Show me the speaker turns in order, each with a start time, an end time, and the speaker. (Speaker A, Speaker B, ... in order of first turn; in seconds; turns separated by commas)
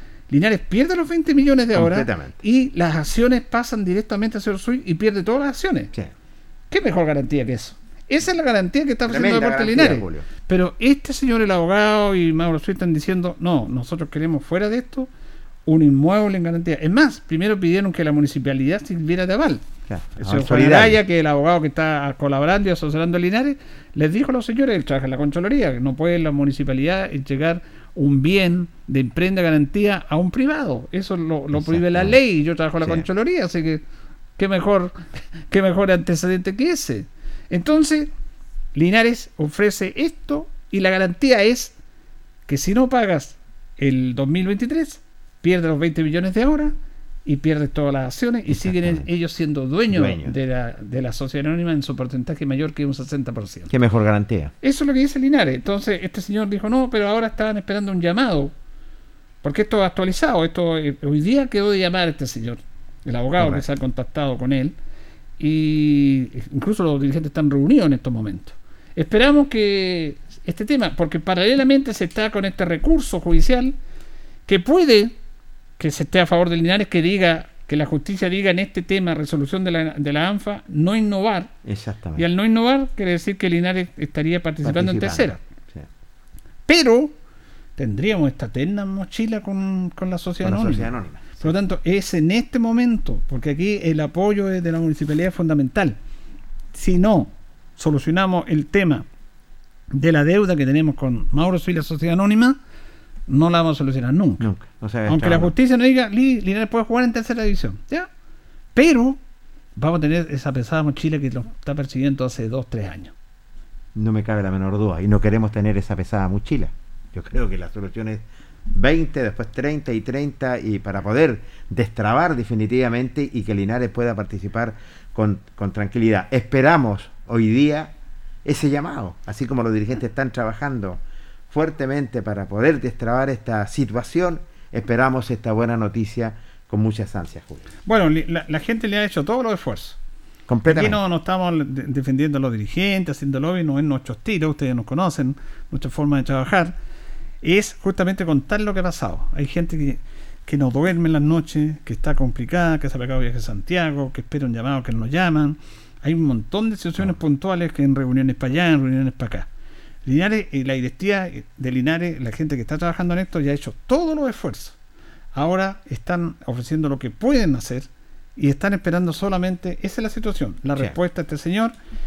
Speaker A: 0.3-5.9, Speaker B: 1.7-2.4, Speaker A: 6.7-15.1, Speaker B: 9.1-10.3, Speaker A: 15.7-19.6, Speaker B: 19.9-21.0, Speaker A: 20.2-33.8, Speaker B: 31.5-32.2, Speaker A: 34.4-38.1, Speaker A: 38.7-41.7, Speaker A: 42.5-46.7, Speaker A: 47.2-53.7, Speaker B: 48.5-49.1, Speaker B: 49.9-50.4, Speaker B: 53.7-54.5, Speaker A: 54.6-58.5, Speaker A: 59.4-64.8, Speaker B: 63.4-63.6, Speaker A: 65.4-73.7, Speaker A: 74.5-75.2, Speaker A: 75.8-81.5, Speaker B: 81.6-82.2, Speaker A: 82.2-85.4, Speaker B: 84.6-85.9, Speaker A: 86.7-87.2, Speaker A: 87.8-96.0, Speaker B: 90.4-91.5, Speaker A: 96.7-99.0, Speaker A: 99.9-102.6, Speaker A: 103.3-104.5, Speaker B: 104.4-105.5, Speaker A: 105.1-108.1, Speaker A: 108.7-109.2, Speaker A: 109.8-113.1, Speaker B: 113.9-127.9, Speaker B: 128.4-137.6, Speaker A: 137.8-140.0, Speaker B: 140.5-141.0, Speaker A: 140.7-146.7, Speaker A: 147.4-159.5, Speaker A: 160.0-164.8, Speaker A: 165.3-171.7